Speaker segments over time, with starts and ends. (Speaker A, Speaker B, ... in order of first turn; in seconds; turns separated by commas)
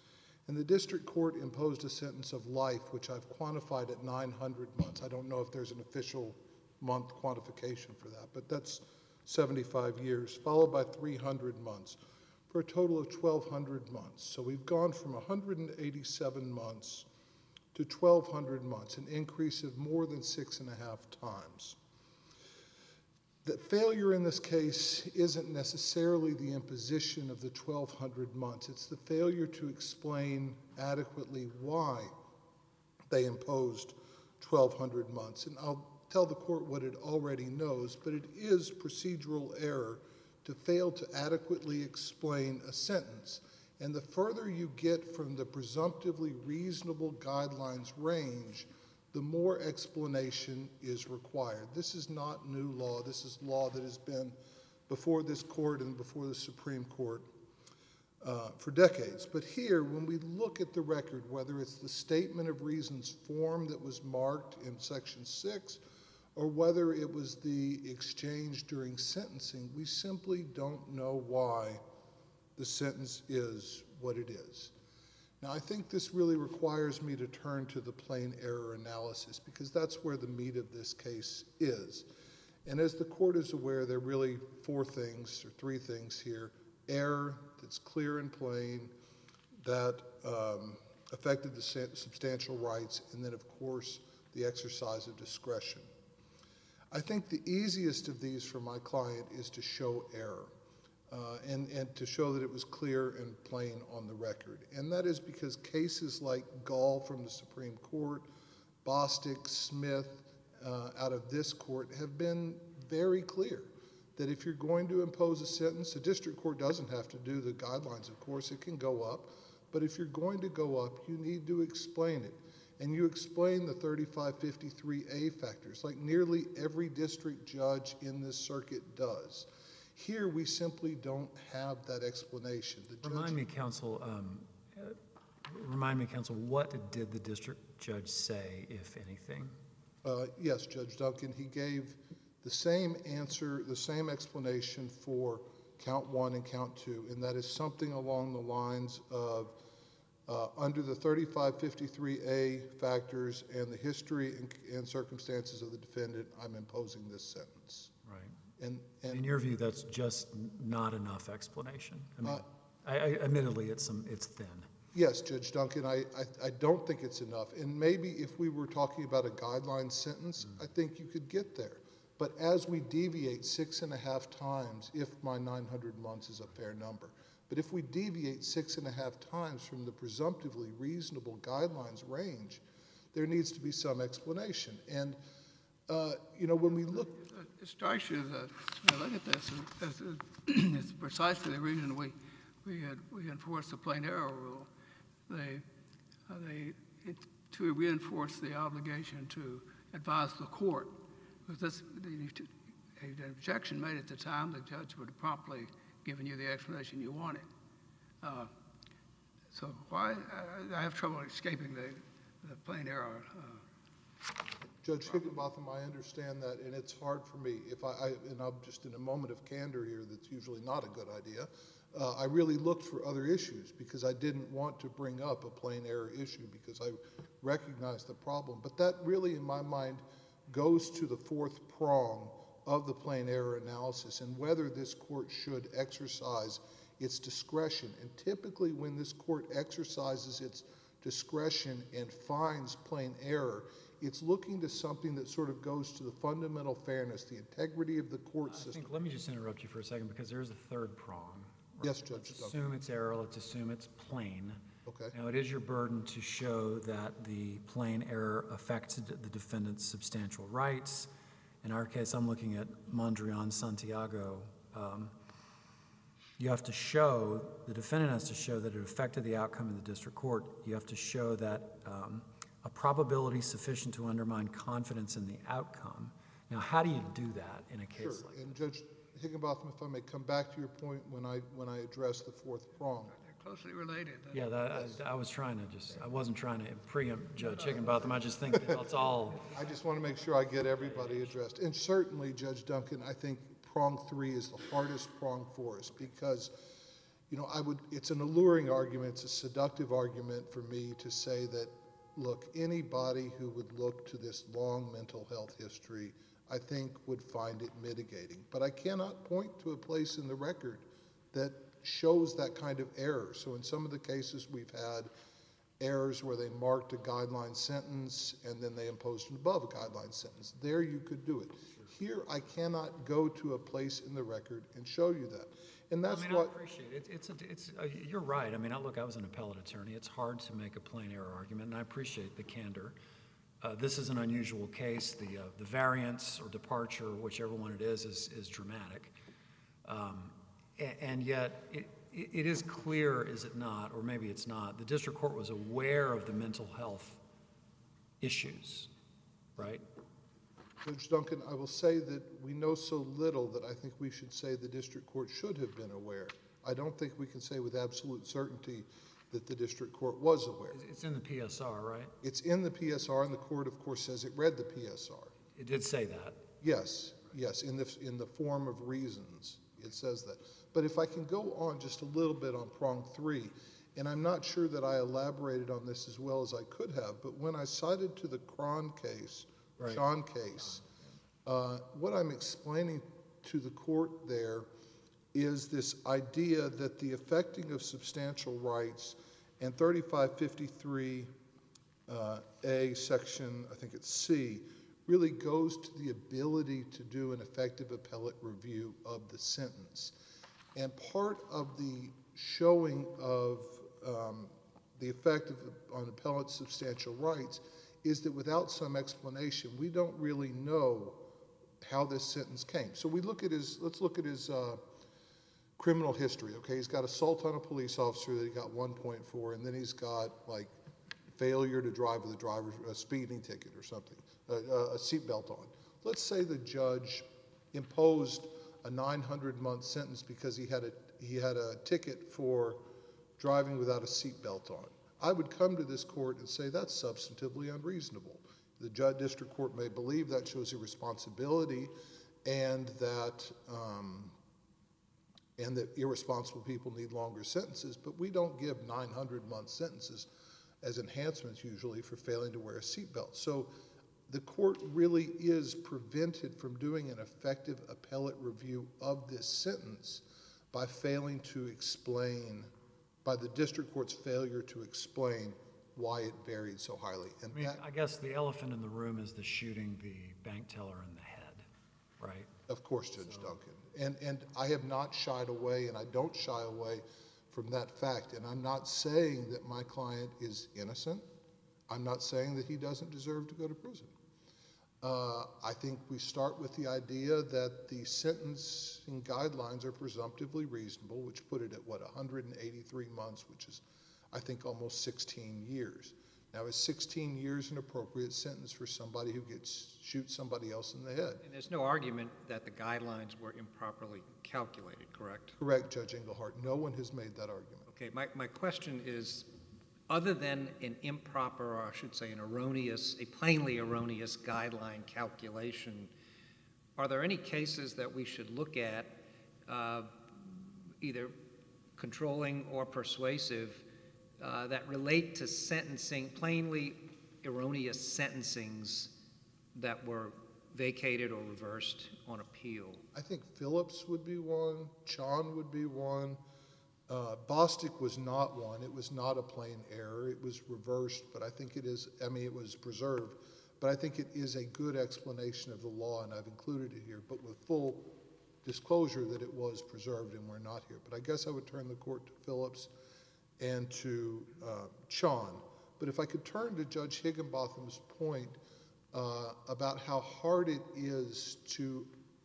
Speaker A: 0.5-12.0, Speaker A: 12.5-17.1, Speaker A: 17.7-21.8, Speaker A: 23.4-32.1, Speaker A: 33.1-54.4, Speaker A: 54.9-57.3, Speaker A: 58.2-65.8, Speaker A: 66.3-71.8, Speaker A: 72.6-74.7, Speaker A: 75.4-82.1, Speaker A: 82.6-88.9, Speaker A: 89.6-95.9, Speaker A: 96.9-100.5, Speaker A: 101.1-108.3, Speaker A: 108.8-133.4, Speaker B: 133.0-139.5, Speaker A: 140.0-149.6, Speaker A: 150.3-157.9, Speaker B: 158.0-158.3, Speaker A: 158.6-159.2, Speaker B: 159.1-164.7, Speaker A: 164.9-182.6, Speaker A: 183.1-185.2, Speaker A: 185.9-187.1, Speaker C: 187.0-194.7, Speaker C: 195.3-195.6, Speaker C: 196.3-200.9, Speaker C: 201.4-207.4, Speaker C: 208.2-208.5, Speaker C: 209.5-213.6, Speaker A: 214.8-248.9, Speaker B: 248.5-261.1, Speaker A: 251.8-252.6, Speaker A: 254.8-255.1, Speaker B: 261.6-265.1, Speaker B: 266.4-278.6, Speaker A: 278.0-283.1, Speaker C: 283.1-284.7, Speaker B: 284.3-289.5, Speaker A: 288.5-288.8, Speaker A: 289.5-296.5, Speaker A: 297.3-315.1, Speaker A: 315.8-326.5, Speaker B: 326.1-332.9, Speaker B: 333.6-339.1, Speaker B: 339.8-347.2, Speaker B: 348.2-348.9, Speaker B: 349.6-349.8, Speaker A: 350.8-360.8, Speaker B: 360.7-362.1, Speaker A: 362.2-365.3, Speaker B: 365.5-366.4, Speaker A: 366.6-380.8, Speaker A: 381.4-384.7, Speaker A: 385.3-391.3, Speaker A: 392.1-400.1, Speaker A: 400.7-411.2, Speaker A: 411.8-414.8, Speaker A: 415.8-420.7, Speaker A: 421.3-432.8, Speaker A: 433.4-441.9, Speaker A: 442.4-444.4, Speaker A: 445.6-450.3, Speaker A: 450.8-453.7, Speaker A: 454.3-462.7, Speaker A: 463.2-467.8, Speaker B: 467.5-471.6, Speaker B: 472.2-472.5, Speaker A: 472.7-481.2, Speaker A: 481.9-484.1, Speaker A: 485.0-501.4, Speaker D: 501.4-505.6, Speaker A: 505.6-507.9, Speaker D: 507.9-509.5, Speaker D: 510.1-516.1, Speaker D: 517.0-521.3, Speaker D: 522.0-523.8, Speaker D: 524.4-529.1, Speaker D: 529.7-533.0, Speaker A: 533.1-536.4, Speaker A: 537.1-548.1, Speaker A: 548.6-552.9, Speaker A: 553.6-558.6, Speaker A: 559.1-562.1